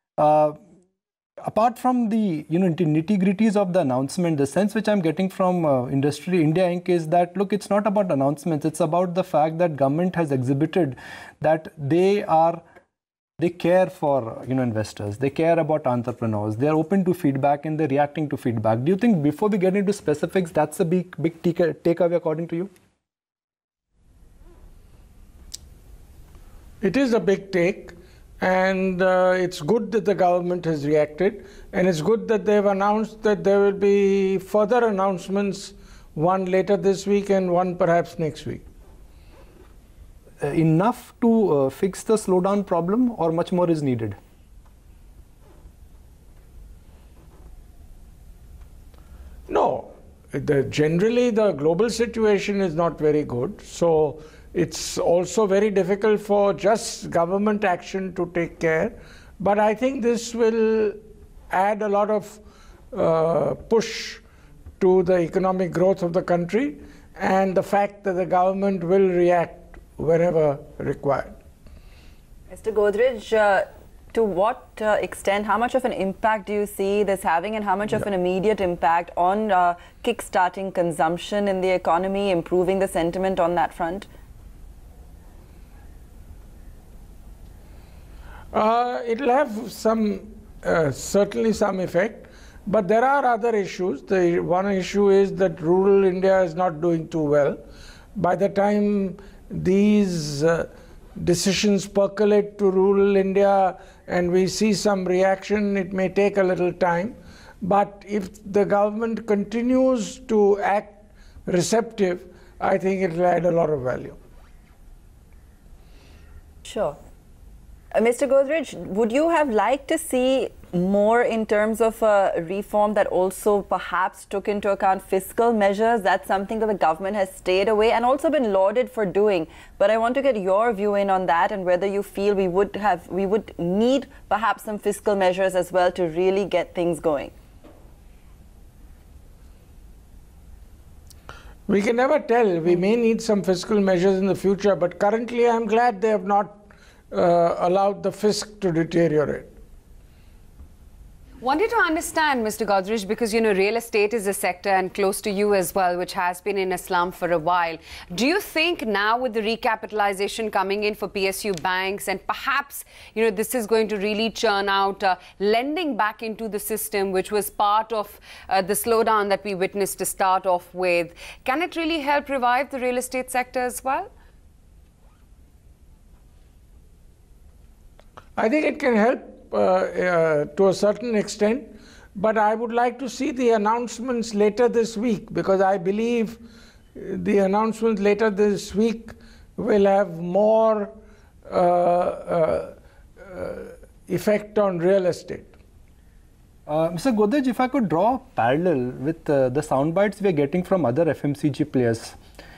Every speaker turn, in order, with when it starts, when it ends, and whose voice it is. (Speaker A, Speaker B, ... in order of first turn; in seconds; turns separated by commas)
Speaker A: 0.2-0.6, Speaker A: 1.4-12.6, Speaker A: 13.4-22.7, Speaker B: 26.8-38.6, Speaker A: 40.4-44.2, Speaker B: 49.5-62.4, Speaker B: 62.9-64.2, Speaker B: 64.8-71.3, Speaker C: 72.5-84.1, Speaker B: 88.5-97.6, Speaker B: 98.1-111.0, Speaker B: 111.5-114.2, Speaker C: 116.7-117.0, Speaker C: 117.9-137.3, Speaker B: 141.7-146.6, Speaker B: 147.1-149.5, Speaker D: 151.4-174.1, Speaker B: 178.4-186.4, Speaker B: 186.9-190.9, Speaker B: 191.5-195.5, Speaker A: 196.7-202.2